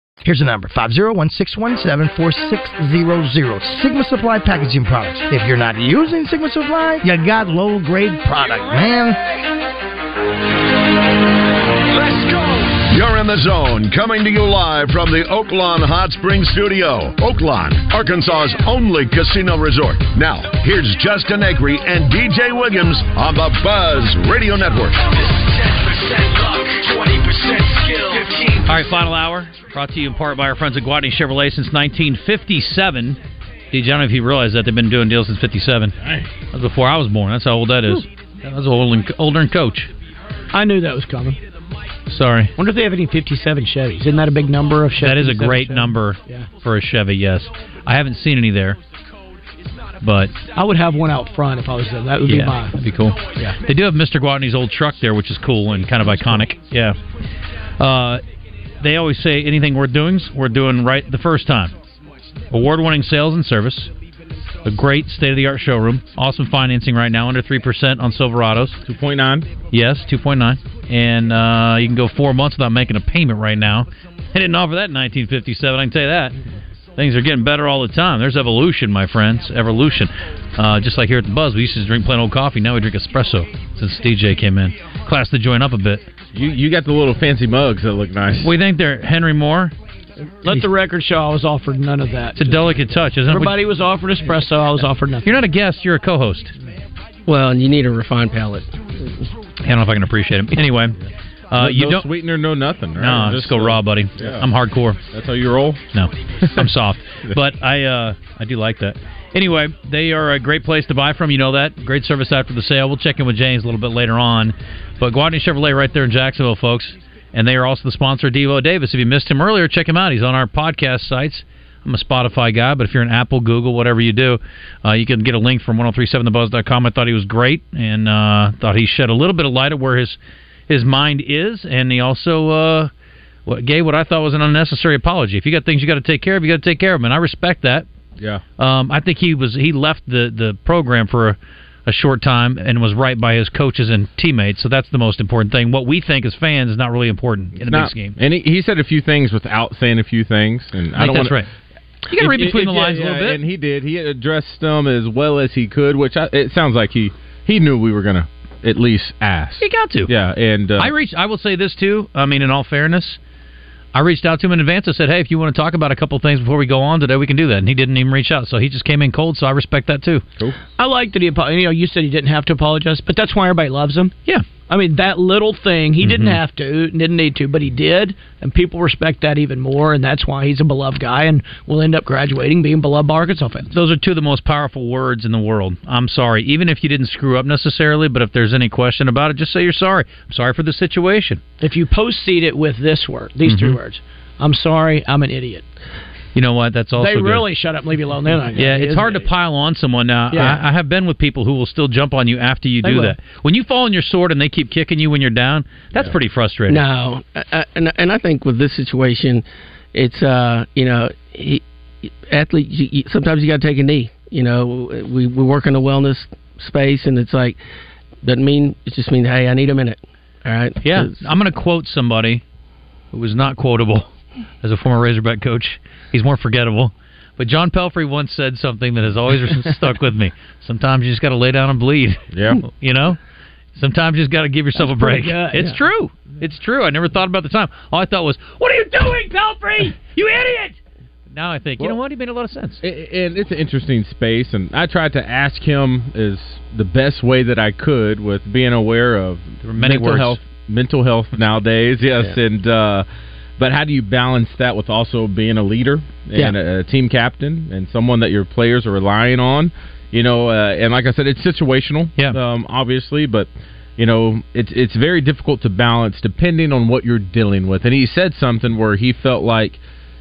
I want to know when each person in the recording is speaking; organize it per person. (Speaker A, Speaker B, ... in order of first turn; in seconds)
Speaker A: 0.2-9.2
Speaker B: 11.9-25.1
Speaker C: 28.6-33.2, 33.7-36.0, 36.5-39.9, 42.0-42.5, 45.0-48.8, 50.0-50.3, 52.2-57.0, 57.8-58.2, 58.8-61.7, 62.5-63.9, 64.6-68.8, 69.7-76.3, 77.0-86.1, 88.4-89.7, 92.3-93.6, 95.2-96.5, 99.6-101.0, 101.5-102.1, 103.0-105.0, 105.9-130.2, 130.7-132.9, 133.4-137.9, 138.6-148.2, 151.0-151.5, 152.1-153.4, 159.6-160.1, 160.8-163.2, 163.9-170.2, 176.0-176.4, 183.7-191.4, 193.4-193.8, 196.3-197.4, 198.5-206.8, 220.8-222.4, 223.1-224.1, 224.6-233.2, 233.7-240.8, 241.3-242.8, 249.6-250.4
Speaker D: 40.5-41.4, 42.6-46.5, 50.5-52.8, 90.4-95.3, 170.8-174.1, 174.7-183.7, 191.6-195.6, 197.0-199.3, 200.3-200.6, 202.8-203.1, 234.8-235.8
Speaker E: 68.8-69.5, 86.3-88.5, 101.5-104.5, 105.1-105.9, 147.6-151.4, 152.1-160.9, 232.3-232.6, 242.8-253.1, 253.6-269.8
Speaker F: 97.2-99.2, 206.7-217.6, 218.2-221.2